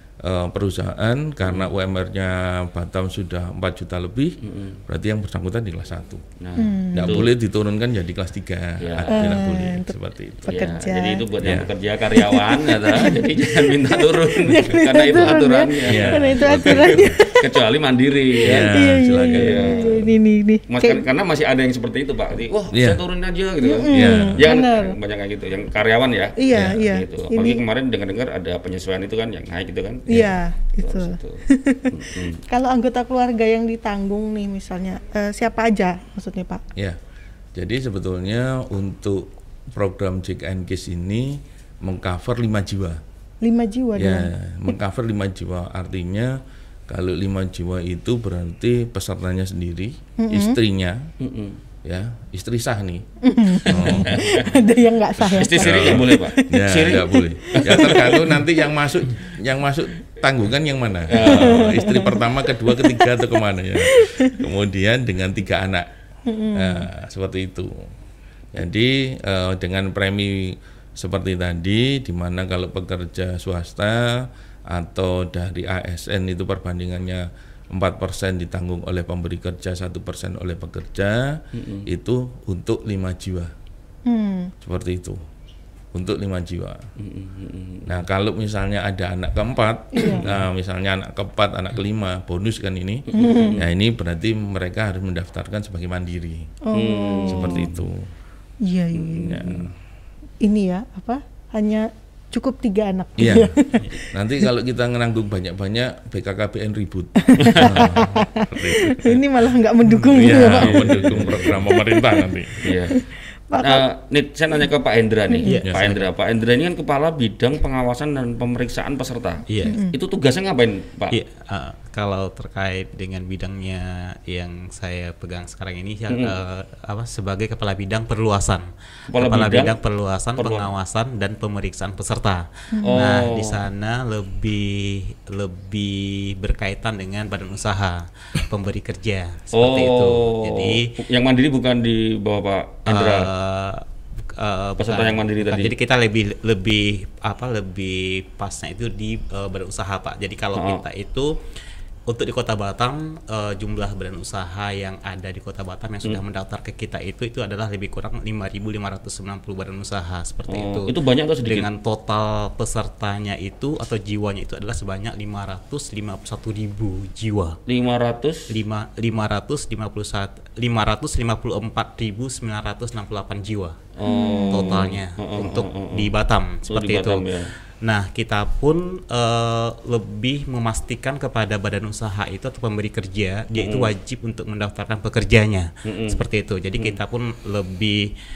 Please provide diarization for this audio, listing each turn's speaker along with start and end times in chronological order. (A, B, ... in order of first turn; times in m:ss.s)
0:00.2-0:04.4 A
0:01.4-0:01.7 B
0:04.4-0:04.8 B
0:04.9-0:06.2 A
0:06.4-0:07.3 B
0:06.6-0:07.3 C
0:06.9-0:10.6 A
0:08.8-0:09.3 B
0:09.1-0:11.3 C
0:10.5-0:18.7 B
0:11.4-0:11.7 A
0:12.1-0:17.5 C
0:15.8-0:17.2 A
0:18.4-0:20.1 A
0:18.5-0:21.1 C
0:19.3-0:20.0 B
0:20.7-0:32.4 B
0:22.7-0:23.0 A
0:23.6-0:25.0 C
0:23.9-0:24.5 A
0:26.4-0:27.6 C
0:26.5-0:26.8 A
0:30.1-0:36.6 C
0:37.6-0:43.0 A
0:43.4-0:44.7 C
0:44.0-0:46.4 A
0:46.9-0:51.0 A
0:50.2-0:50.6 C
0:51.2-0:51.6 B
0:51.8-0:53.0 A
0:53.2-0:58.5 C
0:53.7-0:54.2 A
0:53.7-0:54.5 B
0:55.2-0:58.3 B
0:55.5-1:05.9 A
1:01.1-1:01.6 B
1:01.2-1:04.4 C
1:06.3-1:06.9 C
1:06.5-1:07.7 A
1:08.5-1:23.5 A
1:21.6-1:21.9 B
1:24.1-1:24.5 C
1:24.6-1:25.2 A
1:25.9-1:26.8 A
1:27.0-1:27.9 B
1:27.9-1:33.1 A
1:29.9-1:30.2 C
1:30.1-1:30.4 B
1:33.1-1:33.6 B
1:33.2-1:33.6 C
1:33.6-1:36.6 A
1:36.6-1:37.7 C
1:36.7-1:37.8 B
1:37.3-1:38.1 A
1:38.6-1:39.5 C
1:38.9-1:39.7 B
1:39.3-1:39.7 A
1:40.4-1:44.5 C
1:43.2-1:43.5 A
1:44.1-1:49.2 A
1:47.3-1:52.3 C
1:47.5-1:47.8 B
1:50.0-1:50.3 D
1:50.1-1:52.7 A
1:50.4-1:51.6 B
1:52.6-1:52.9 B
1:52.9-1:53.9 C
1:53.6-2:01.2 B
1:55.3-1:55.6 C
1:55.5-1:56.1 D
1:59.5-1:59.8 D
1:59.6-2:00.0 C
2:01.1-2:20.9 D
2:06.1-2:06.4 B
2:09.1-2:09.8 B
2:10.4-2:10.7 B
2:12.7-2:13.1 C
2:12.9-2:13.7 B
2:19.5-2:23.3 B
2:22.9-2:31.3 D
2:24.8-2:25.8 B
2:30.5-2:30.8 B
2:32.1-2:47.6 D
2:40.5-2:41.7 B
2:47.7-2:48.4 B
2:48.5-2:53.8 D
2:54.0-2:56.1 B
2:54.1-2:54.8 C
2:54.5-2:57.3 D
2:56.7-2:57.5 B
2:57.8-3:08.1 D
3:03.6-3:03.9 B
3:05.9-3:06.2 B